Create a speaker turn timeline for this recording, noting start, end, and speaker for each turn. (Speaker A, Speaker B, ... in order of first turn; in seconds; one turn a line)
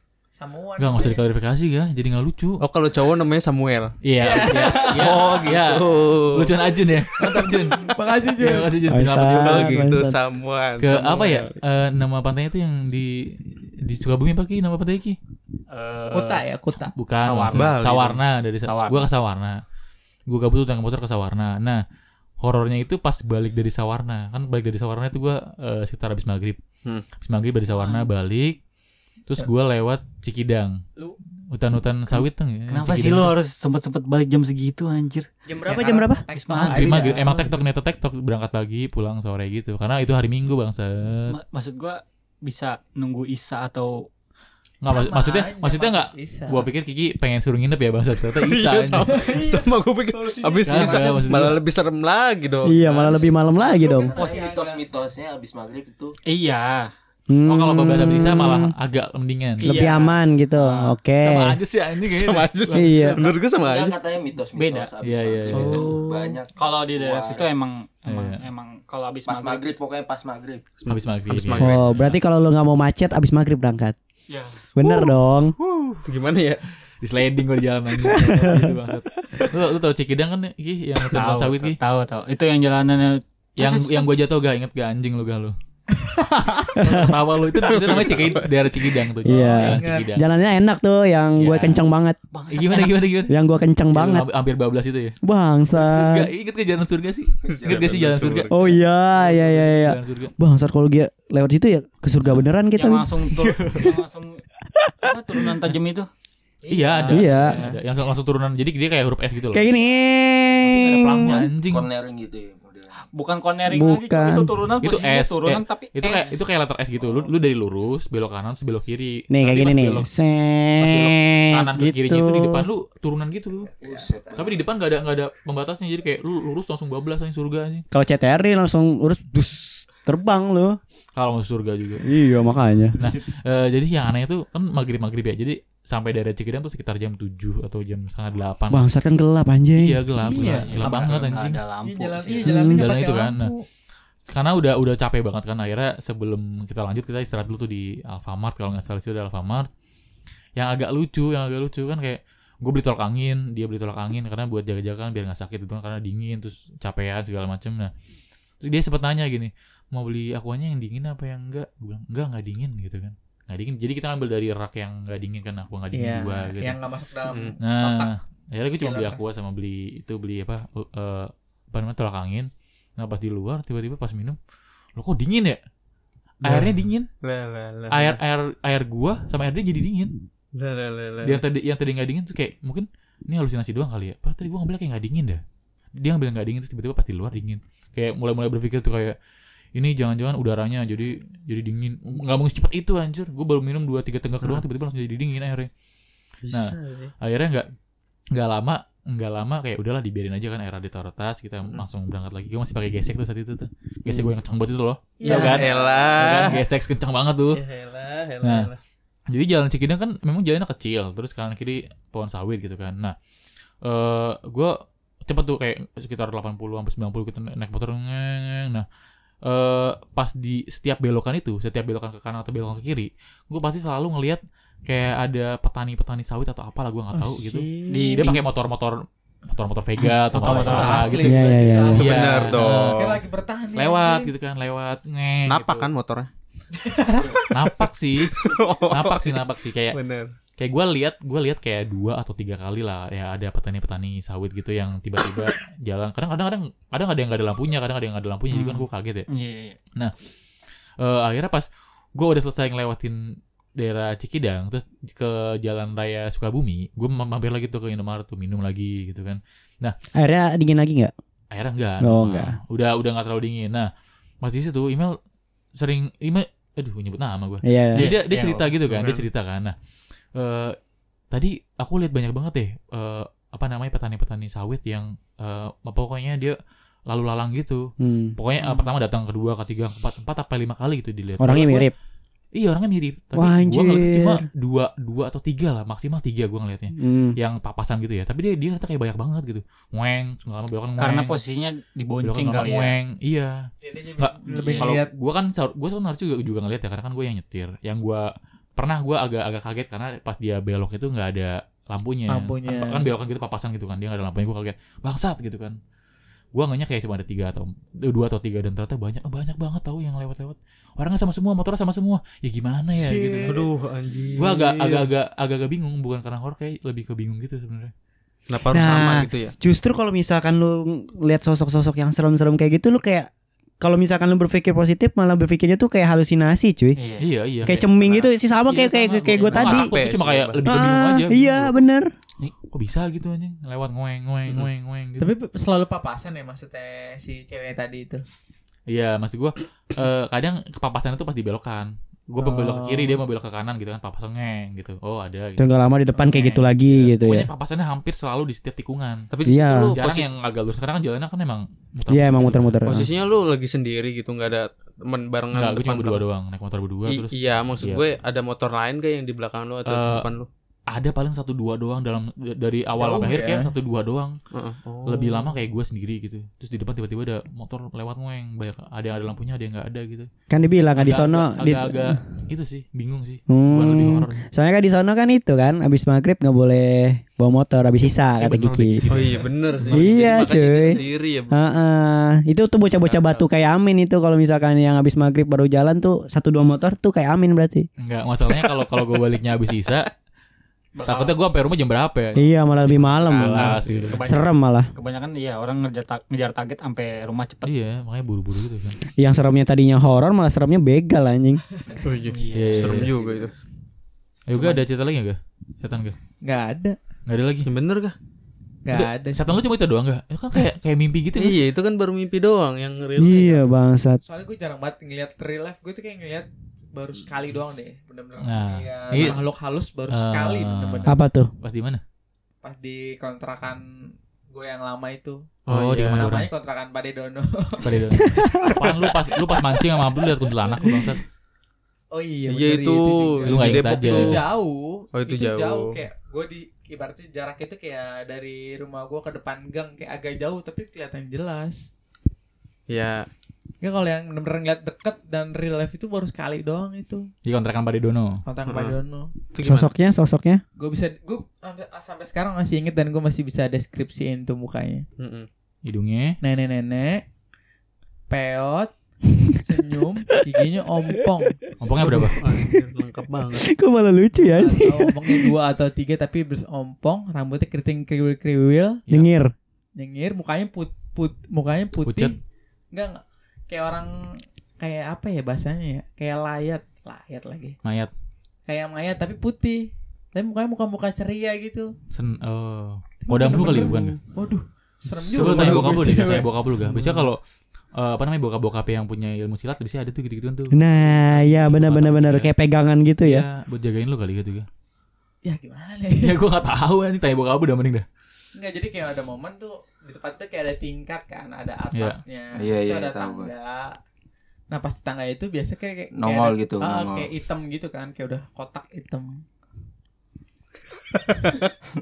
Speaker A: 0.3-1.2
Speaker B: 0.8-2.6
Speaker C: 2.6-4.0
Speaker B: 4.0-9.8
Speaker A: 4.2-5.6
Speaker C: 4.8-6.6
Speaker A: 7.2-8.8
Speaker D: 8.9-10.2
Speaker C: 9.2-11.6
Speaker B: 10.8-15.2
Speaker E: 15.7-16.5
Speaker A: 16.1-16.9
Speaker B: 16.9-19.6
Speaker E: 17.2-17.8
Speaker C: 17.5-18.2
Speaker E: 18.6-19.1
Speaker B: 20.3-21.8
Speaker B: 22.4-26.6
Speaker B: 27.2-28.6
Speaker B: 29.3-30.8
Speaker B: 31.5-33.3
Speaker E: 32.7-35.3
Speaker D: 35.5-36.2
Speaker A: 35.7-37.5
Speaker E: 36.3-37.2
Speaker B: 36.6-41.3
Speaker E: 41.3-44.1
Speaker B: 44.8-49.2
Speaker A: 44.8-46.7
Speaker C: 48.3-53.3
Speaker A: 49.1-51.5
Speaker B: 50.7-51.6
Speaker D: 52.6-54.1
Speaker A: 53.6-54.8
Speaker F: 53.8-56.1
Speaker E: 54.1-54.5
Speaker E: 56.2-56.9
Speaker D: 57.3-58.7
Speaker B: 57.5-59.9
Speaker E: 59.6-60.9
Speaker D: 59.6-61.6
Speaker B: 61.2-63.0
Speaker C: 62.0-64.0
Speaker D: 62.7-63.2
Speaker F: 63.5-67.5
Speaker E: 64.5-64.9
Speaker B: 65.0-65.9
Speaker C: 65.5-66.4
Speaker E: 66.5-69.7
Speaker B: 68.1-68.4
Speaker F: 69.3-70.7
Speaker C: 70.8-71.9
Speaker B: 70.9-72.2
Speaker D: 71.6-73.9
Speaker E: 74.3-74.6
Speaker D: 74.8-75.5
Speaker B: 75.6-76.0
Speaker C: 76.0-76.6
Speaker B: 77.0-81.8
Speaker D: 78.1-78.7
Speaker E: 81.1-84.1
Speaker B: 83.6-85.5
Speaker A: 86.0-86.9
Speaker B: 86.7-90.3
Speaker D: 86.8-87.1
Speaker C: 87.6-88.5
Speaker A: 89.2-90.1
Speaker D: 89.2-92.2
Speaker B: 91.4-91.8
Speaker E: 92.3-93.0
Speaker B: 92.5-93.4
Speaker D: 93.3-94.2
Speaker B: 93.9-95.2
Speaker D: 95.2-96.3
Speaker B: 95.7-100.3
Speaker F: 97.5-98.3
Speaker C: 97.7-98.6
Speaker D: 98.5-103.6
Speaker B: 102.2-102.5
Speaker E: 102.7-104.4
Speaker D: 104.8-105.0
Speaker E: 105.0-106.1
Speaker A: 106.6-107.8
Speaker B: 106.7-109.6
Speaker D: 107.1-107.6
Speaker D: 109.5-111.3
Speaker E: 110.6-111.2
Speaker B: 111.0-111.9
Speaker F: 111.2-113.0
Speaker E: 113.0-116.4
Speaker D: 113.7-114.5
Speaker B: 114.8-120.1
Speaker D: 119.3-122.7
Speaker B: 120.8-123.7
Speaker F: 123.6-124.6
Speaker B: 124.3-127.8
Speaker D: 127.9-130.8
Speaker B: 131.2-132.0
Speaker D: 132.0-133.0
Speaker E: 132.9-133.2
Speaker B: 133.0-138.9
Speaker D: 138.7-140.0
Speaker B: 139.8-141.6
Speaker A: 140.2-140.9
Speaker E: 140.3-142.7
Speaker A: 141.8-143.7
Speaker D: 142.4-142.8
Speaker B: 142.7-143.5
Speaker B: 144.2-149.7
Speaker B: 150.6-157.9
Speaker B: 158.6-166.8
Speaker A: 165.9-168.1
Speaker C: 167.3-167.6
Speaker B: 167.6-174.4
Speaker A: 168.8-169.2
Speaker B: 175.0-175.6
Speaker B: 176.4-177.1
Speaker C: 177.2-178.2
Speaker B: 177.9-180.1
Speaker C: 180.5-181.4
Speaker B: 181.2-185.4
Speaker B: 186.0-189.2
Speaker B: 189.7-195.7
Speaker C: 196.4-197.1
Speaker B: 196.5-197.7
Speaker B: 198.3-207.6
Speaker A: 205.2-206.5
Speaker C: 205.2-206.6
Speaker C: 207.5-208.8
Speaker B: 208.4-208.7
Speaker B: 209.3-213.1
Speaker B: 213.8-218.8
Speaker B: 219.4-233.2
Speaker A: 227.1-228.4
Speaker E: 227.9-228.4
Speaker A: 230.3-234.3
Speaker E: 230.3-231.3
Speaker D: 231.2-232.2
Speaker C: 231.9-233.2
Speaker B: 233.7-235.9
Speaker C: 235.5-236.3
Speaker A: 236.8-237.5
Speaker B: 237.5-240.0
Speaker C: 238.3-239.4
Speaker C: 239.9-240.3
Speaker B: 240.6-249.3
Speaker E: 248.5-249.8
Speaker B: 251.0-259.9
Speaker D: 260.1-261.1
Speaker B: 261.5-263.9
Speaker D: 262.0-262.6
Speaker B: 264.4-265.2
Speaker B: 265.8-269.7
Speaker D: 267.6-268.1
Speaker E: 267.9-268.7
Speaker C: 268.9-269.2
Speaker B: 270.3-270.8
Speaker B: 271.3-281.9
Speaker D: 278.0-278.4
Speaker D: 281.4-281.9
Speaker B: 282.5-291.4
Speaker D: 283.4-284.4
Speaker D: 286.9-287.4
Speaker E: 291.0-292.9
Speaker B: 292.2-305.8
Speaker A: 293.8-295.1
Speaker E: 294.5-294.9
Speaker A: 302.3-303.1
Speaker B: 306.5-313.6
Speaker A: 312.9-313.7
Speaker C: 313.5-315.1
Speaker B: 314.4-317.9
Speaker C: 318.5-319.5
Speaker D: 318.7-327.0
Speaker E: 327.0-327.3
Speaker B: 327.2-328.0
Speaker D: 327.6-329.9
Speaker B: 328.7-331.7
Speaker C: 329.5-330.6
Speaker D: 330.6-332.1
Speaker B: 332.7-335.3
Speaker A: 335.2-338.2
Speaker B: 338.9-345.6
Speaker A: 342.4-343.2
Speaker D: 345.6-347.5
Speaker A: 346.1-346.5
Speaker B: 346.3-349.3
Speaker C: 349.3-350.3
Speaker D: 349.5-349.9
Speaker B: 349.9-353.1
Speaker D: 352.1-353.1
Speaker C: 352.9-356.2
Speaker B: 355.5-358.0
Speaker C: 357.1-360.5
Speaker B: 359.8-360.3
Speaker B: 360.9-364.4
Speaker A: 363.0-363.7
Speaker C: 364.5-365.5
Speaker B: 365.0-370.3
Speaker D: 370.5-372.2
Speaker B: 370.9-374.4
Speaker D: 373.5-379.0
Speaker B: 378.1-380.6
Speaker C: 379.1-381.6
Speaker D: 379.9-387.9
Speaker C: 383.1-383.4
Speaker B: 388.0-390.1
Speaker E: 390.9-391.3
Speaker B: 391.1-394.2
Speaker D: 392.3-394.9
Speaker E: 393.6-397.7
Speaker C: 393.6-393.8
Speaker B: 397.6-399.0
Speaker D: 399.2-401.6
Speaker C: 402.0-403.5
Speaker E: 402.3-403.1
Speaker B: 402.5-403.1
Speaker F: 403.1-403.5
Speaker B: 404.5-406.1
Speaker A: 406.4-407.0
Speaker B: 407.2-407.7
Speaker C: 407.6-408.1
Speaker A: 408.8-409.7
Speaker B: 408.9-411.6
Speaker C: 411.4-413.7
Speaker D: 413.2-414.2
Speaker A: 414.2-421.1
Speaker B: 418.4-419.5
Speaker B: 420.1-422.0
Speaker D: 421.1-421.5
Speaker A: 422.6-423.8
Speaker A: 424.5-425.5
Speaker C: 425.7-426.3
Speaker B: 425.7-426.5
Speaker A: 426.2-428.8
Speaker B: 427.8-431.2
Speaker D: 428.1-428.8
Speaker A: 432.1-441.9
Speaker C: 432.5-434.4
Speaker B: 433.4-434.4
Speaker C: 435.1-436.0
Speaker C: 442.9-443.3
Speaker A: 443.8-447.3
Speaker B: 447.4-448.4
Speaker A: 448.4-449.3
Speaker C: 448.7-449.0
Speaker C: 449.5-449.9
Speaker D: 449.6-450.6
Speaker A: 450.8-455.1
Speaker C: 455.2-455.5
Speaker B: 455.8-456.4
Speaker A: 456.4-457.2
Speaker A: 458.3-458.9
Speaker A: 459.5-462.3
Speaker B: 461.8-462.4
Speaker C: 462.1-463.6
Speaker D: 462.5-462.9
Speaker D: 463.5-465.5
Speaker A: 464.4-469.0
Speaker D: 469.1-469.5
Speaker A: 469.9-472.4
Speaker B: 472.0-472.3
Speaker A: 472.9-477.8
Speaker B: 477.8-478.1
Speaker A: 478.7-481.9
Speaker B: 482.1-484.2
Speaker A: 483.2-486.5
Speaker B: 485.3-487.4
Speaker C: 485.3-487.3
Speaker B: 487.9-492.5
Speaker D: 490.7-493.4
Speaker B: 493.2-494.7
Speaker A: 495.4-496.4
Speaker B: 496.2-498.1
Speaker A: 498.5-504.0
Speaker B: 501.9-502.2
Speaker F: 502.5-503.5
Speaker A: 504.7-509.4
Speaker F: 506.1-507.3